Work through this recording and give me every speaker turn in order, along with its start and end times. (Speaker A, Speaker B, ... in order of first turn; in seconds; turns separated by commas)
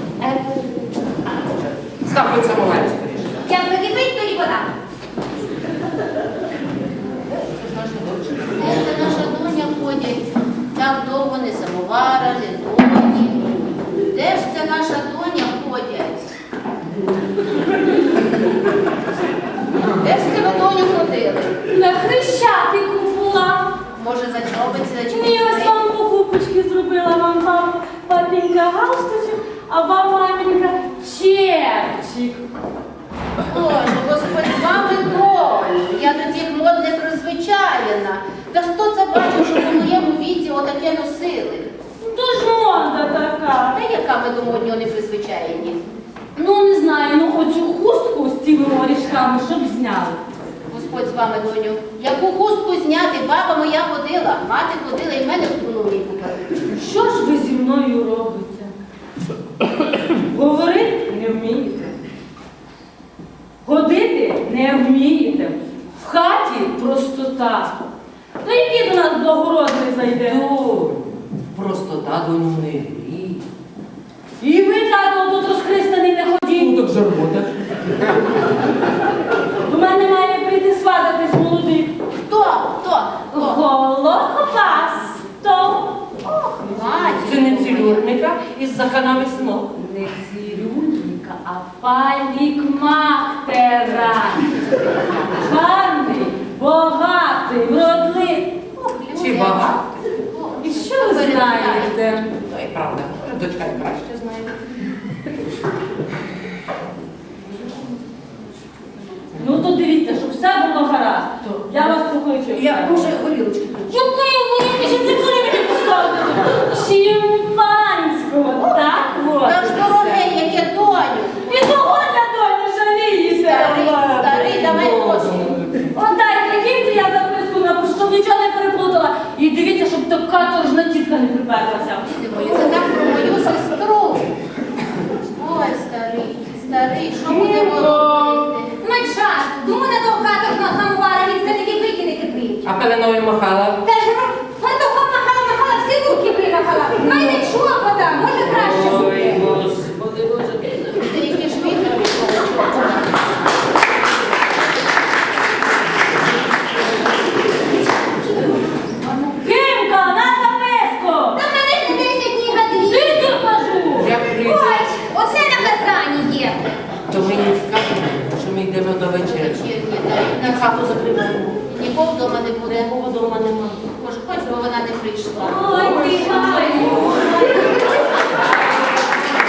Speaker A: 0.2-0.9, Speaker A: 1.8-3.5, Speaker B: 3.5-4.7, Speaker A: 7.3-9.1, Speaker C: 8.6-16.3, Speaker C: 19.8-21.6, Speaker D: 21.7-23.8, Speaker C: 23.9-25.8, Speaker D: 25.1-32.4, Speaker C: 33.5-41.7, Speaker D: 42.0-43.8, Speaker C: 43.7-45.8, Speaker D: 46.3-50.2, Speaker C: 50.7-56.7, Speaker D: 56.7-58.7, Speaker D: 60.2-62.0, Speaker D: 63.6-67.7, Speaker D: 68.4-70.4, Speaker A: 70.2-73.4, Speaker D: 74.4-76.8, Speaker A: 76.5-78.1, Speaker D: 79.6-81.9, Speaker C: 82.3-83.6, Speaker D: 83.3-86.8, Speaker C: 86.6-88.1, Speaker A: 87.2-89.7, Speaker D: 89.7-94.6, Speaker D: 95.3-98.5, Speaker C: 98.8-101.9, Speaker A: 99.1-100.0, Speaker D: 100.6-102.3, Speaker A: 102.3-104.6, Speaker D: 109.3-113.1, Speaker A: 112.5-114.0, Speaker D: 113.9-120.2, Speaker C: 119.4-121.7, Speaker D: 121.5-124.3, Speaker C: 123.4-125.5, Speaker A: 124.3-125.9, Speaker D: 125.9-132.1, Speaker C: 132.1-134.2, Speaker C: 135.3-138.7, Speaker B: 138.8-142.7, Speaker A: 142.6-143.8, Speaker B: 143.8-149.4, Speaker A: 147.0-147.4, Speaker A: 148.2-150.9, Speaker C: 150.9-153.2, Speaker D: 159.3-161.4, Speaker B: 161.3-163.3, Speaker D: 162.8-164.2, Speaker A: 164.0-164.9, Speaker B: 164.3-166.7, Speaker A: 167.1-169.6, Speaker C: 169.2-171.0, Speaker A: 170.4-171.7, Speaker C: 171.6-172.9, Speaker A: 172.6-173.9, Speaker C: 174.0-176.2, Speaker D: 175.4-177.7, Speaker B: 175.9-178.3